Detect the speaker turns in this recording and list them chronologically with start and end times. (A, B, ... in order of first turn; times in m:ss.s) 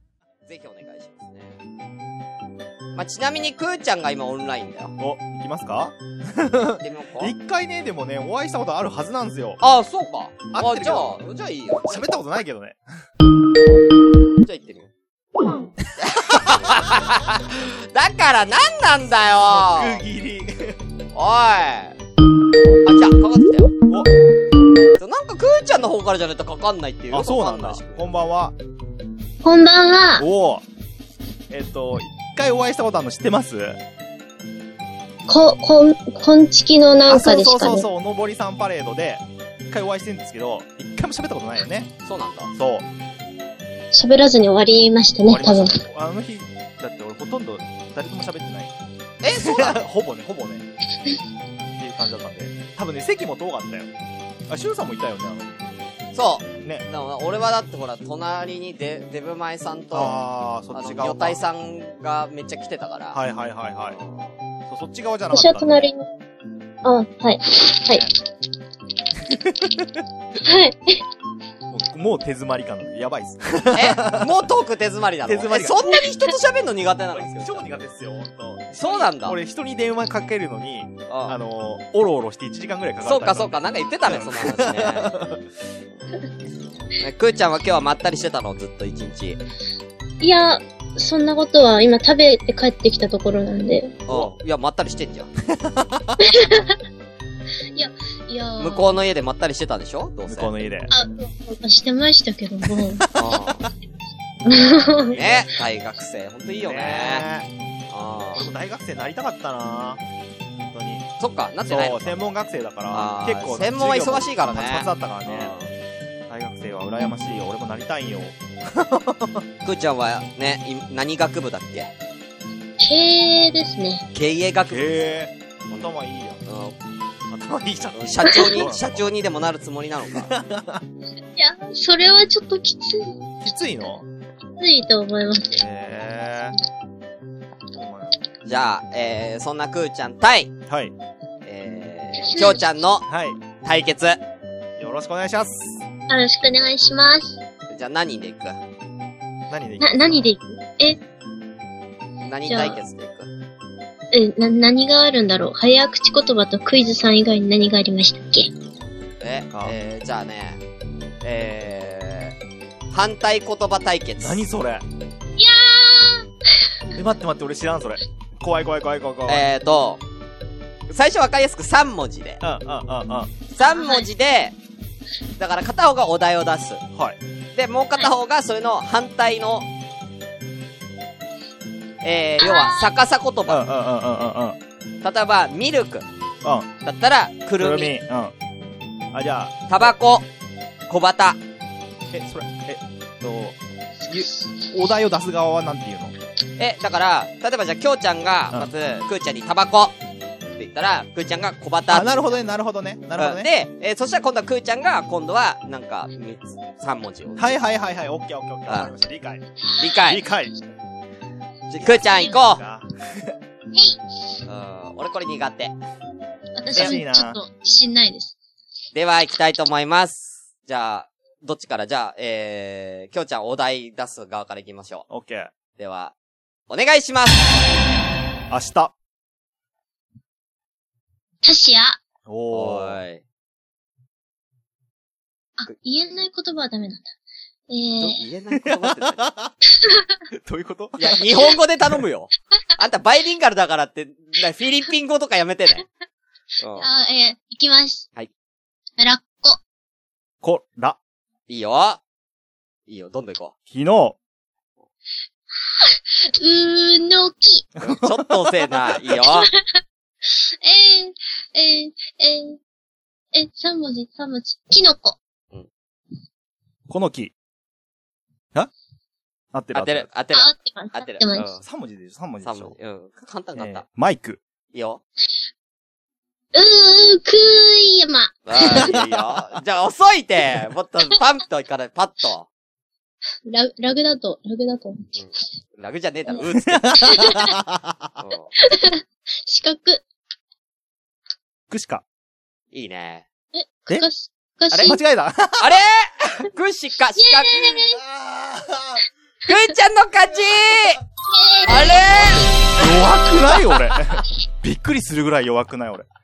0:00.5-0:01.6 A
0:03.0-0:05.0 A
0:05.0-0:09.6 B
0:06.8-0:07.4 A
0:09.6-0:11.9 A
0:10.5-0:11.1 B
0:11.8-0:12.8 B
0:14.4-0:14.9 A
0:16.0-0:20.0 A
0:16.0-0:16.8 B
0:19.5-0:20.8 B
0:21.1-0:22.0 A
0:22.8-0:23.7 A
0:25.0-0:28.1 A
0:27.1-0:28.6 B
0:29.4-0:30.3 C
0:30.2-0:30.6 B
0:31.5-0:33.8 B
0:35.3-0:37.9 C
0:37.1-0:41.9 B
0:42.0-0:42.5 A
0:42.6-0:42.9 B
0:43.9-0:45.8 C
0:45.3-0:48.7 B
0:49.2-0:49.8 A
0:49.3-0:50.7 B
0:51.8-0:53.9 B
0:54.5-0:55.6 B
0:56.1-1:03.2 A
0:59.9-1:01.4 B
1:03.1-1:04.0 B
1:03.9-1:04.4 A
1:04.7-1:05.9 B
1:05.3-1:06.1 C
1:06.8-1:08.1 C
1:09.3-1:10.0 B
1:10.4-1:11.0 C
1:11.7-1:14.3 B
1:13.7-1:17.8 A
1:15.3-1:16.0 B
1:17.1-1:25.4 B
1:18.7-1:19.4 A
1:21.1-1:21.4 A
1:23.0-1:25.1 A
1:27.0-1:29.4 A
1:30.2-1:34.0 C
1:34.1-1:35.3 A
1:35.5-1:36.3 B
1:36.2-1:36.8 C
1:37.7-1:39.0 C
1:38.6-1:40.5 A
1:40.3-1:40.9 B
1:40.9-1:43.0 C
1:42.7-1:43.6 B
1:43.2-1:43.7 A
1:44.4-1:45.2 C
1:45.1-1:45.5 B
1:45.1-1:47.3 A
1:46.6-1:47.5 B
1:47.9-1:48.5 A
1:48.3-1:50.0 B
1:50.7-1:51.1 B
1:51.2-1:52.2 A
1:51.7-1:55.5 B
1:52.9-1:55.7 A
1:56.3-1:59.4 B
1:59.6-2:01.9 A
2:02.8-2:04.1 C
2:04.2-2:05.1 A
2:04.7-2:06.4 B
2:06.5-2:06.8 A
2:07.3-2:09.1 B
2:08.0-2:10.3 A
2:10.1-2:10.8 B
2:11.4-2:13.2 C
2:13.4-2:14.1 B
2:14.6-2:15.6 C
2:15.6-2:16.6 B
2:17.7-2:18.2 B
2:18.5-2:20.5 A
2:20.7-2:20.9 B
2:21.4-2:23.1 A
2:22.2-2:22.7 C
2:23.1-2:23.4 B
2:23.6-2:24.2 A
2:24.8-2:25.8 B
2:26.1-2:27.4 C
2:27.7-2:28.6 A
2:29.5-2:30.3 B
2:29.8-2:31.0 C
2:32.2-2:33.3 A
2:32.5-2:32.8 C
2:34.1-2:38.5 C
2:39.2-2:40.6 A
2:39.5-2:39.8 B
2:41.2-2:42.4 A
2:42.9-2:44.4 A
2:44.2-2:44.8 B
2:45.4-2:46.3 C
2:46.9-2:49.5 B
2:49.3-2:50.0 A
2:50.9-2:52.4 A
2:52.4-2:53.3 B
2:53.5-2:54.6 A
2:53.6-2:54.1 C
2:55.4-2:56.8 A
2:57.6-2:59.7 A
3:02.0-3:03.6 A
3:02.4-3:02.8 C
3:03.5-3:04.6 B
3:05.0-3:06.1 A
3:06.4-3:06.7 B
3:06.8-3:08.0 A
3:07.6-3:08.3 B
3:09.1-3:09.9 B
3:09.7-3:10.3 A
3:10.9-3:11.4 A
3:12.1-3:13.6 B
3:14.1-3:16.2 B
3:16.6-3:20.0 A
3:20.6-3:22.2 A
3:21.9-3:23.5 B
3:23.2-3:27.6 A
3:27.4-3:29.4 B
3:28.7-3:28.9 A
3:29.8-3:30.2 A
3:30.0-3:30.6 B
3:31.7-3:32.6 A
3:31.8-3:33.4 B
3:33.7-3:34.0 C
3:34.5-3:35.7 A
3:36.6-3:38.4 C
3:36.7-3:37.4 B
3:39.0-3:45.1 A
3:45.1-3:45.5 B
3:45.8-3:46.1 A
3:46.7-3:47.5 A
3:48.5-3:48.9 B
3:51.4-3:52.0 C
3:52.3-3:53.0 B
3:52.5-3:53.2 A
3:55.6-3:57.1 C
3:57.7-3:58.2 C
3:58.0-3:59.3 A
3:58.6-3:59.5 B
3:59.8-4:00.2 C
4:00.3-4:01.2 B
4:01.0-4:05.9 A
4:06.6-4:06.9 A
4:06.8-4:08.1 C
4:09.0-4:09.6 C
4:10.4-4:11.0 B
4:11.5-4:12.0 A
4:12.9-4:13.5 A
4:13.7-4:14.2 B
4:15.8-4:17.7 C
4:17.8-4:18.4 B
4:17.8-4:19.5 A
4:19.1-4:19.8 C
4:20.3-4:22.6 C
4:23.3-4:25.2 C
4:26.9-4:27.3 B
4:29.5-4:30.1 B
4:29.7-4:31.6 A
4:30.3-4:31.5 C
4:31.6-4:32.8 B
4:32.4-4:33.8 A
4:33.6-4:34.4 B
4:34.7-4:35.0 A
4:36.5-4:39.0 C
4:38.5-4:42.5 A
4:38.7-4:39.4 B
4:43.5-4:45.1 C
4:45.2-4:47.2 A
4:46.6-4:48.0 B
4:47.1-4:47.6 C
4:48.2-4:48.5 A
4:48.6-4:50.0 C
4:51.7-4:52.0 B
4:52.7-4:53.2 A
4:53.5-4:55.0 C
4:54.7-4:55.0 A
4:54.8-4:55.8 B
4:55.6-4:57.8 A
4:57.2-4:58.0 C
4:57.9-4:59.0 B
4:59.5-5:01.0 A
5:01.3-5:02.4 C
5:01.6-5:02.6 A
5:02.7-5:06.0 B
5:03.9-5:04.2 A